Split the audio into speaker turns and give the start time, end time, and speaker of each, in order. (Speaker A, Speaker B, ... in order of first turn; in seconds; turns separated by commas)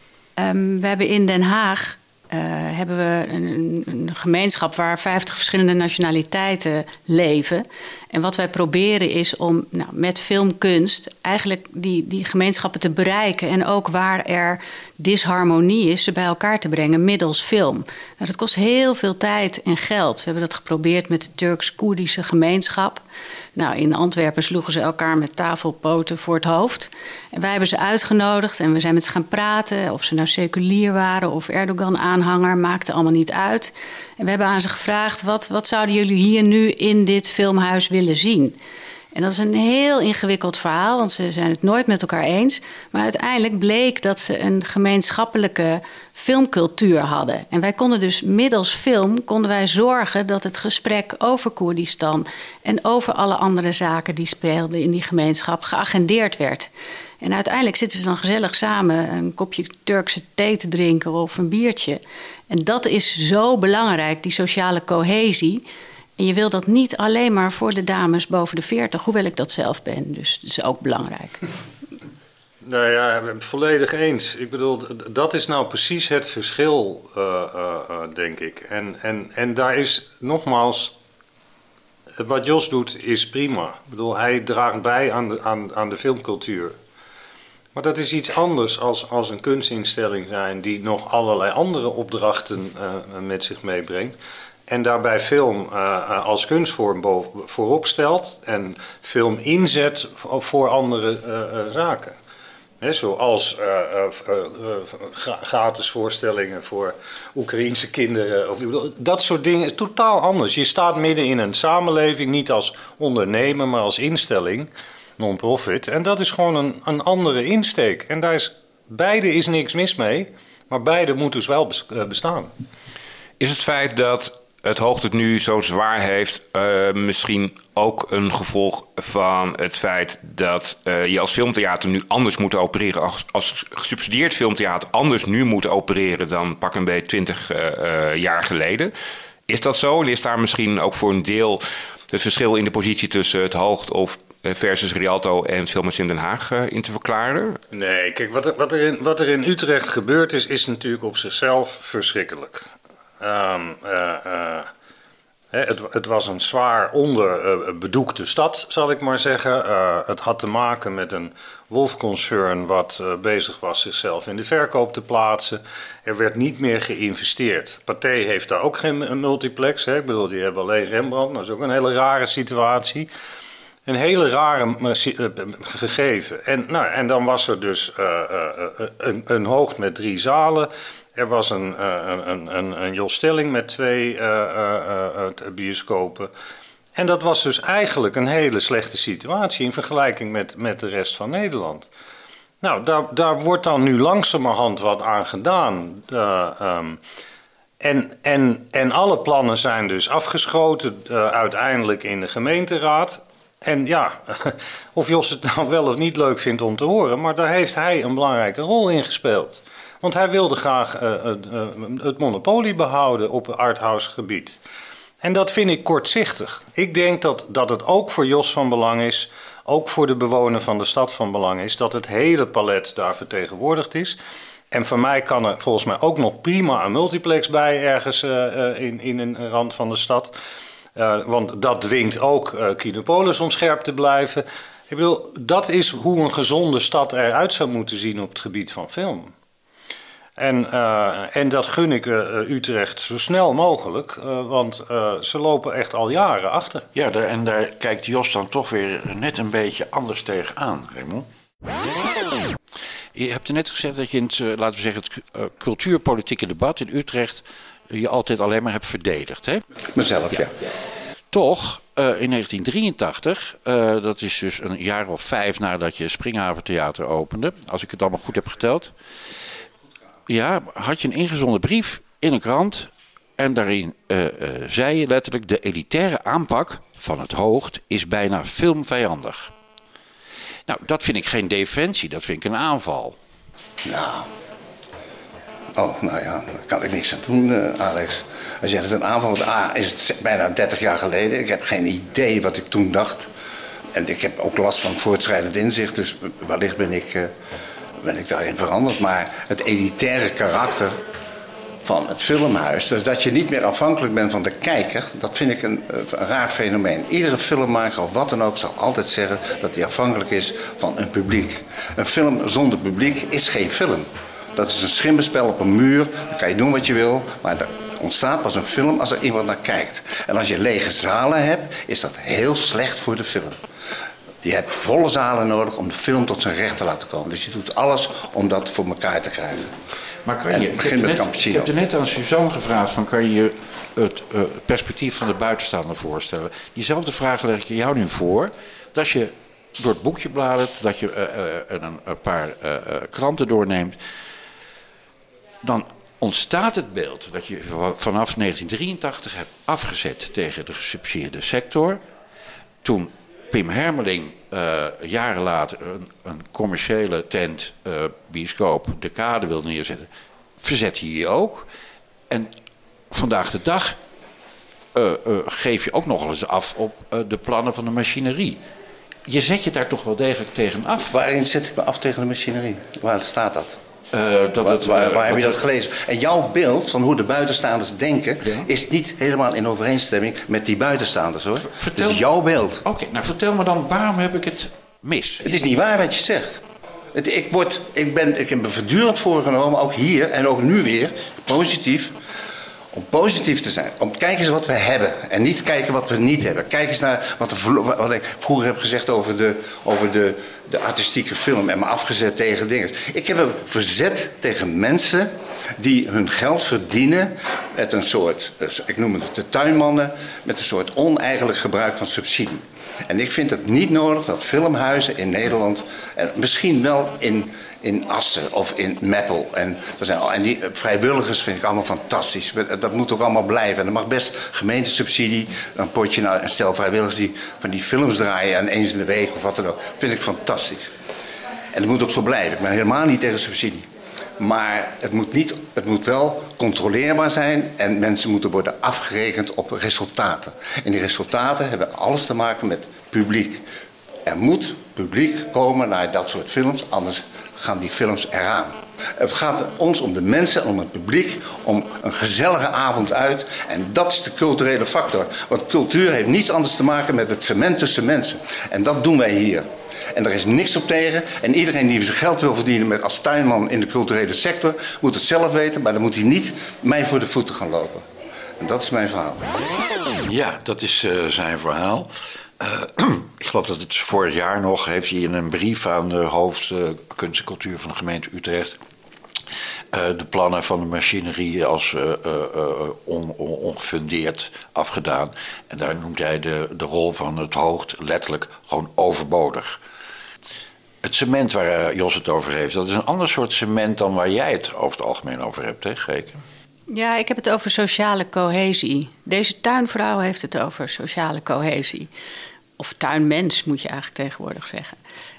Speaker A: 0.4-23.0, Speaker A: 23.6-38.6, Speaker A: 39.1-56.7, Speaker A: 57.2-65.6, Speaker A: 66.2-71.4, Speaker B: 72.6-81.0, Speaker B: 82.2-86.8, Speaker B: 87.7-94.2, Speaker B: 94.7-102.2, Speaker B: 102.8-122.5, Speaker C: 123.4-138.9, Speaker C: 139.5-147.6, Speaker B: 147.7-154.7, Speaker B: 155.5-173.1, Speaker B: 173.9-186.3, Speaker B: 186.9-191.9, Speaker B: 192.6-197.0, Speaker B: 197.8-214.6, Speaker B: 215.2-224.2, Speaker B: 224.7-230.4, Speaker B: 230.9-239.3, Speaker B: 240.4-246.9, Speaker D: 246.9-251.3, Speaker D: 253.1-259.6, Speaker E: 259.9-260.5, Speaker D: 261.3-268.9, Speaker D: 270.3-279.5, Speaker D: 280.7-283.2, Speaker E: 283.9-284.3, Speaker E: 285.8-293.3, Speaker E: 293.9-297.3, Speaker E: 298.0-300.9, Speaker E: 301.8-323.6, Speaker E: 324.4-329.7, Speaker D: 330.2-344.0, Speaker E: 330.5-331.7, Speaker D: 345.6-352.0, Speaker D: 352.8-360.1, Speaker D: 360.6-361.7, Speaker D: 363.1-364.0, Speaker D: 364.9-368.6, Speaker D: 369.3-371.1, Speaker E: 371.1-373.8, Speaker D: 374.1-375.6, Speaker E: 374.6-382.8, Speaker D: 381.6-382.2, Speaker D: 382.8-385.4, Speaker E: 385.4-386.6, Speaker E: 387.1-392.1, Speaker E: 392.9-430.9, Speaker E: 431.7-433.9, Speaker E: 434.4-443.6, Speaker E: 444.2-468.1, Speaker E: 468.6-469.4, Speaker D: 470.2-478.8, Speaker D: 479.9-489.8, Speaker D: 491.0-496.4, Speaker A: 496.9-502.1, Speaker A: 502.8-504.9